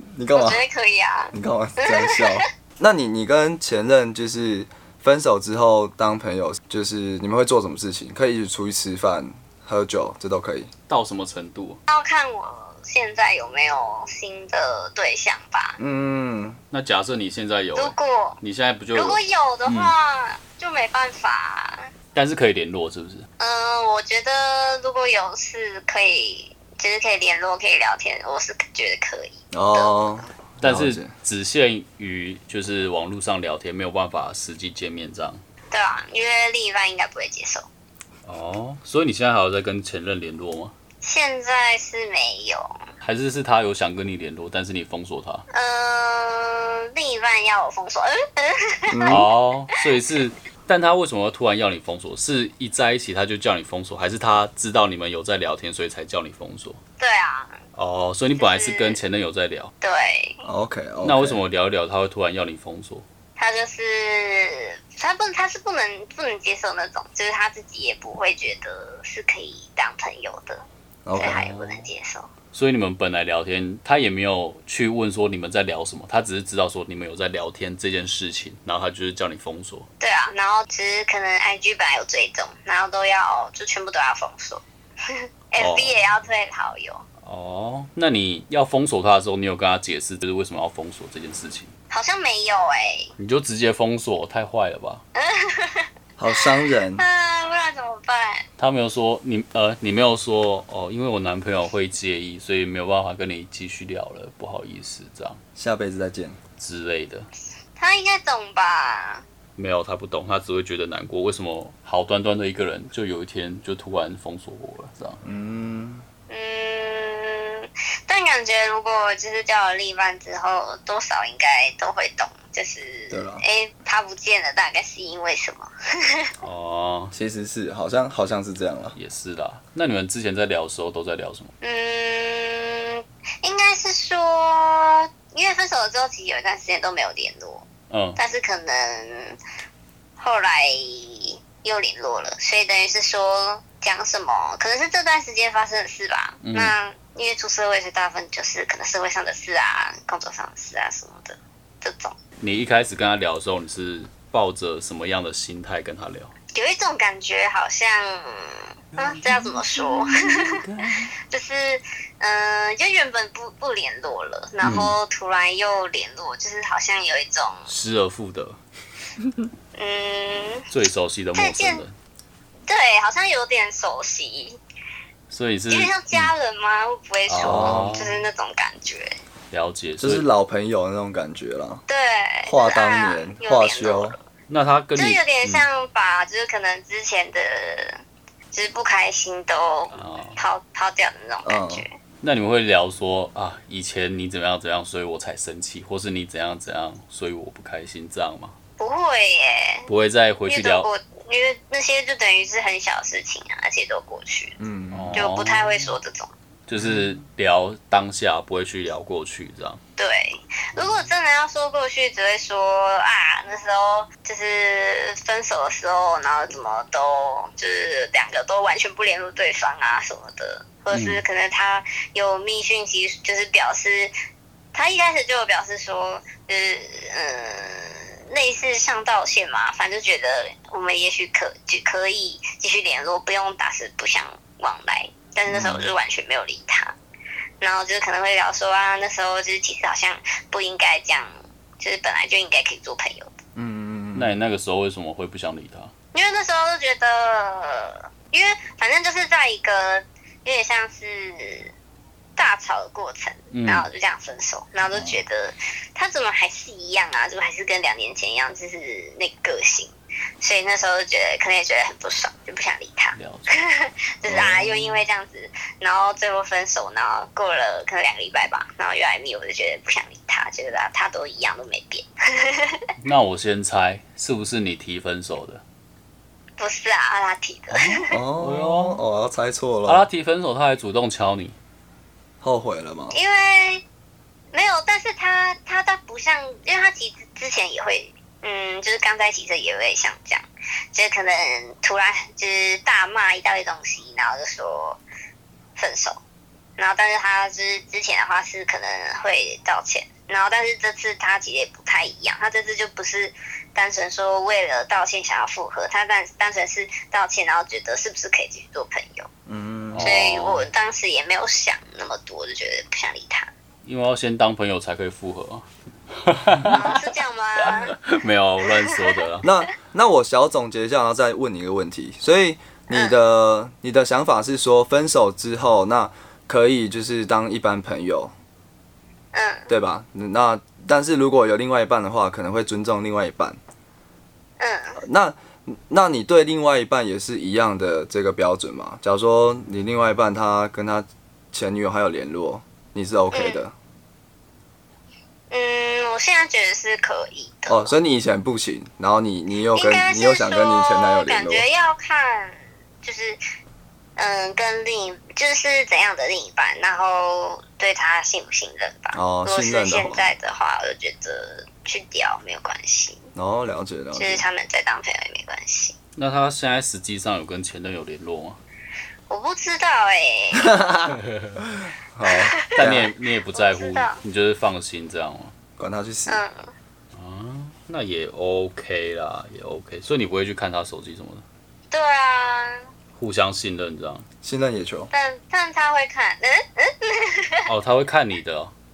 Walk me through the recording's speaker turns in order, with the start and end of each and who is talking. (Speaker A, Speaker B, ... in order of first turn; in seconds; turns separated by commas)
Speaker A: 0.1-0.6, Speaker B: 0.3-2.4, Speaker A: 1.3-10.7, Speaker C: 10.9-11.8, Speaker B: 11.9-15.8, Speaker A: 15.8-16.6, Speaker C: 16.7-19.9, Speaker B: 17.8-18.4, Speaker B: 18.9-21.9, Speaker C: 22.1-23.3, Speaker B: 23.4-30.1, Speaker A: 29.5-31.1, Speaker C: 30.6-35.4, Speaker B: 35.7-37.6, Speaker C: 38.2-40.7, Speaker B: 41.0-42.8, Speaker C: 43.0-45.4, Speaker B: 45.5-49.2, Speaker A: 48.9-49.2, Speaker C: 49.1-56.8, Speaker B: 57.0-57.6, Speaker C: 57.7-59.7, Speaker B: 58.4-59.0, Speaker B: 59.8-60.4, Speaker A: 60.4-61.4, Speaker C: 61.0-63.0, Speaker B: 63.4-70.6, Speaker A: 71.0-71.4, Speaker B: 71.2-72.3, Speaker C: 71.2-71.9, Speaker C: 72.5-79.9, Speaker B: 80.0-87.0, Speaker C: 85.6-86.0, Speaker C: 87.2-91.7, Speaker B: 91.9-93.1, Speaker C: 93.2-95.0, Speaker B: 95.1-98.5, Speaker A: 96.2-97.0, Speaker C: 98.6-105.4, Speaker A: 105.5-106.4, Speaker C: 106.6-107.3, Speaker B: 107.8-109.2, Speaker C: 109.5-115.2, Speaker A: 115.2-116.0, Speaker B: 116.3-126.3, Speaker A: 123.1-123.4, Speaker C: 126.4-127.1, Speaker A: 127.1-129.0, Speaker C: 128.9-131.5, Speaker B: 131.6-137.7, Speaker C: 137.9-138.2, Speaker B: 138.2-139.4, Speaker B: 140.2-152.2, Speaker C: 146.4-146.7, Speaker C: 152.4-156.3, Speaker B: 156.5-160.6, Speaker B: 161.3-167.7, Speaker C: 164.6-164.9, Speaker C: 167.7-168.6, Speaker B: 169.7-170.7, Speaker C: 170.7-171.9, Speaker B: 171.3-171.8, Speaker B: 172.7-174.6, Speaker C: 175.3-176.3, Speaker B: 175.7-179.2, Speaker C: 177.3-178.2, Speaker A: 177.4-177.9, Speaker C: 179.5-180.3, Speaker A: 180.0-181.8, Speaker B: 181.9-184.2, Speaker A: 182.4-184.2, Speaker C: 184.5-185.7, Speaker B: 184.9-188.0, Speaker B: 188.5-191.9, Speaker C: 189.9-190.4, Speaker A: 191.4-191.8, Speaker C: 192.2-198.6, Speaker B: 198.8-199.9, Speaker C: 199.9-200.9, Speaker B: 200.5-204.6, Speaker A: 204.6-205.2, Speaker C: 204.9-205.9, Speaker B: 205.1-206.3, Speaker C: 206.7-209.8, Speaker A: 206.8-207.1, Speaker B: 210.0-224.1, Speaker C: 220.9-221.2, Speaker B: 224.7-236.9, Speaker A: 235.5-235.8, Speaker B: 237.6-243.3, Speaker A: 243.6-244.3, Speaker C: 244.1-245.9, Speaker B: 246.1-251.7, Speaker B: 252.4-272.9, Speaker C: 253.5-253.9, Speaker A: 254.9-255.2, Speaker C: 263.1-263.6, Speaker C: 264.3-265.0, Speaker C: 273.0-275.6, Speaker B: 276.6-278.2, Speaker C: 277.9-279.0, Speaker A: 277.9-280.1, Speaker C: 279.9-281.6, Speaker A: 282.4-283.2, Speaker B: 283.1-283.8, Speaker B: 284.5-295.0, Speaker B: 295.8-296.2, Speaker B: 296.8-309.3, Speaker A: 309.5-310.1, Speaker C: 309.9-310.6, Speaker B: 310.0-313.5, Speaker C: 313.8-317.0, Speaker B: 316.7-317.9, Speaker C: 317.6-319.4, Speaker A: 319.4-328.3, Speaker B: 329.3-329.7, Speaker A: 329.7-333.6, Speaker B: 334.6-335.0, Speaker A: 335.0-343.7, Speaker B: 343.3-343.6, Speaker B: 345.5-347.9, Speaker A: 347.7-351.6, Speaker B: 349.7-353.4, Speaker B: 354.2-363.3, Speaker A: 359.1-360.3, Speaker A: 363.3-364.4, Speaker B: 364.1-365.9, Speaker C: 366.1-368.6, Speaker B: 369.3-370.8, Speaker A: 370.5-373.1, Speaker C: 371.1-371.6, Speaker B: 372.2-372.9, Speaker C: 372.7-375.5, Speaker B: 373.5-374.2, Speaker A: 375.8-376.4, Speaker B: 376.3-376.7, Speaker C: 377.1-381.4, Speaker B: 381.9-382.9, Speaker C: 383.1-384.2, Speaker A: 384.4-385.1, Speaker B: 385.1-387.7, Speaker C: 387.7-388.7